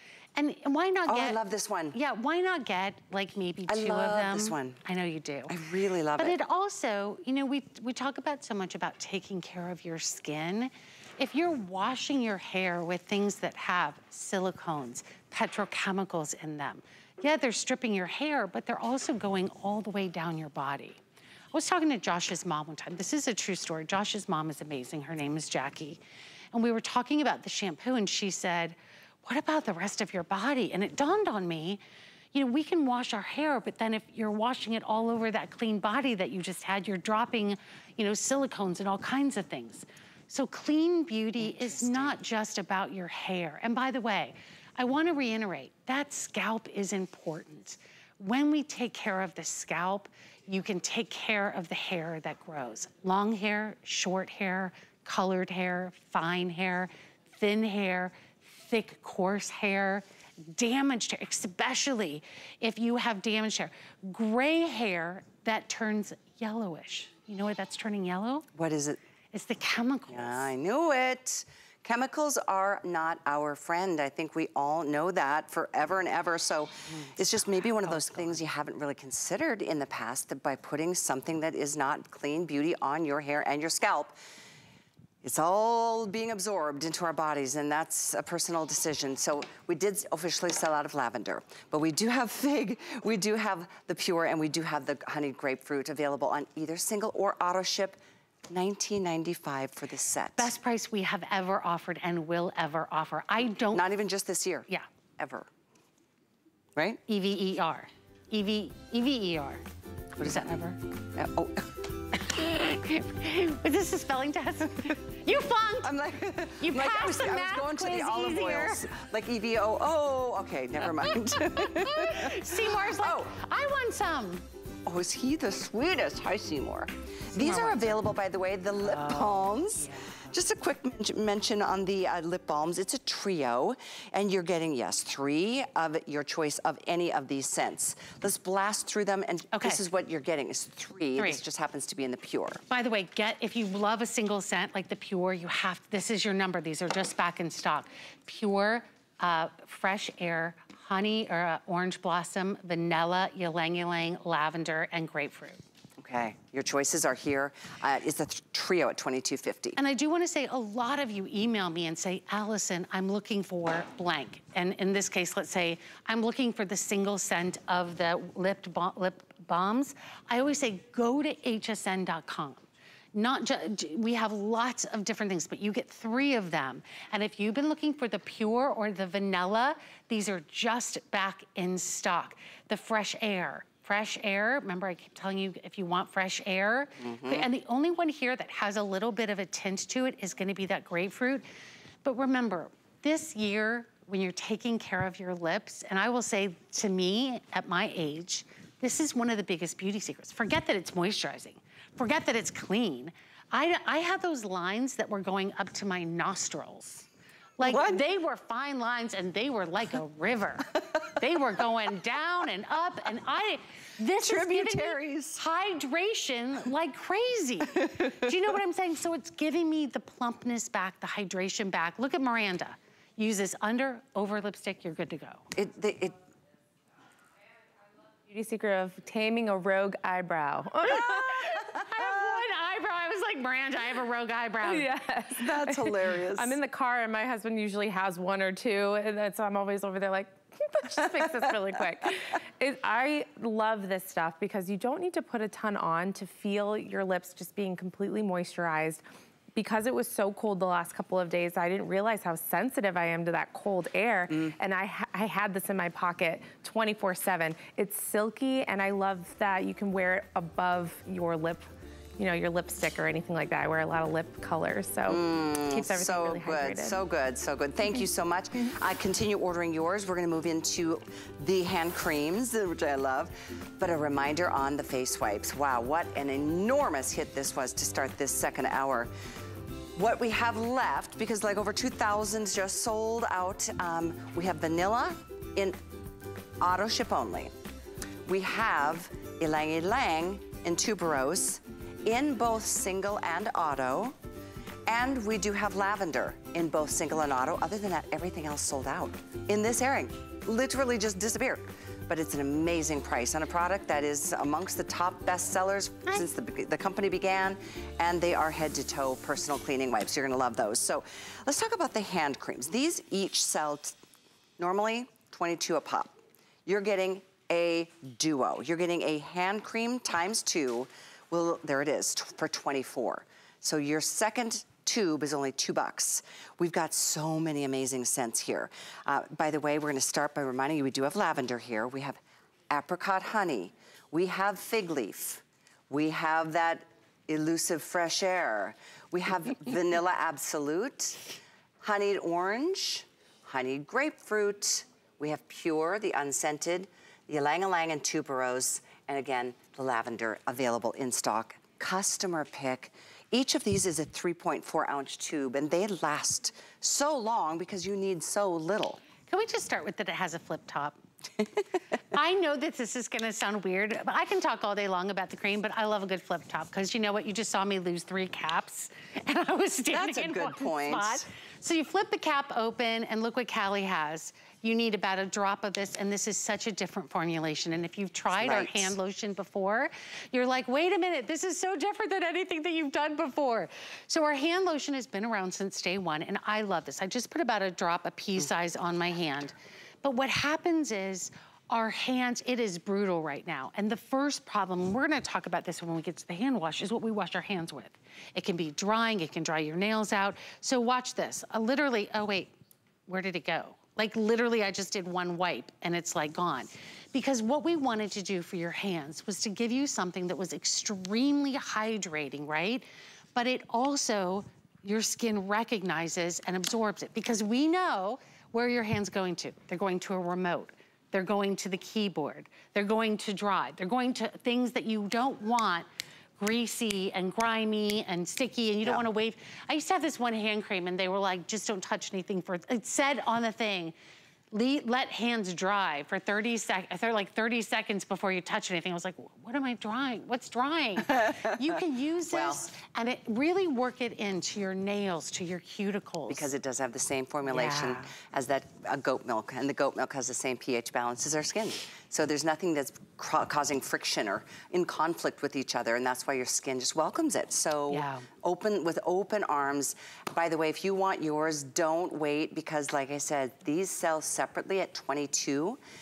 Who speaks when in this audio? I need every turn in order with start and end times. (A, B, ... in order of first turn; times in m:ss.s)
0:00.3-0:01.4 A
0:01.1-0:02.0 B
0:01.9-0:05.5 A
0:03.7-0:04.8 B
0:05.5-0:06.3 B
0:06.2-0:21.0 A
0:21.5-0:26.0 A
0:26.5-0:31.8 A
0:32.3-1:08.5 A
0:41.4-0:42.2 B
1:08.5-1:09.0 B
1:09.3-1:10.5 A
1:10.1-1:24.2 B
1:16.9-1:18.4 A
1:25.2-1:38.0 B
1:38.5-1:40.5 B
1:40.4-1:43.8 A
1:43.7-1:45.5 B
1:47.1-1:49.6 A
1:50.2-1:51.8 B
1:50.2-1:50.7 A
1:52.2-1:55.9 A
1:55.8-2:03.3 B
1:56.6-1:58.8 A
2:00.9-2:04.4 A
2:04.8-2:22.6 B
2:07.4-2:07.8 A
2:08.8-2:10.2 A
2:19.5-2:19.8 A
2:22.7-2:35.6 A
2:36.0-2:39.8 B
2:39.8-3:11.4 A
3:07.0-3:07.5 B
3:12.0-3:27.0 A
3:27.6-3:45.4 A
3:27.6-3:28.0 B
3:34.2-3:35.4 B
3:37.7-3:38.2 B
3:45.5-3:46.2 B
3:48.3-3:51.6 C
3:50.9-3:55.0 A
3:54.6-4:09.0 C
3:55.3-3:56.6 B
4:09.5-4:27.0 C
4:25.0-4:39.1 B
4:39.9-4:45.8 B
4:46.6-4:47.5 B
4:48.2-4:54.2 B
4:54.8-5:14.0 B
5:14.6-5:41.3 B
5:41.8-5:59.0 B
5:59.3-6:01.0 A
6:02.1-6:42.5 A
6:09.9-6:11.2 B
6:18.4-6:18.9 B
6:43.1-7:05.8 A
7:06.4-7:13.9 A
7:14.5-7:26.5 A
7:21.0-7:21.7 B
7:22.3-7:22.6 B
7:26.3-7:45.8 B
7:27.4-7:28.1 A
7:37.9-7:38.3 A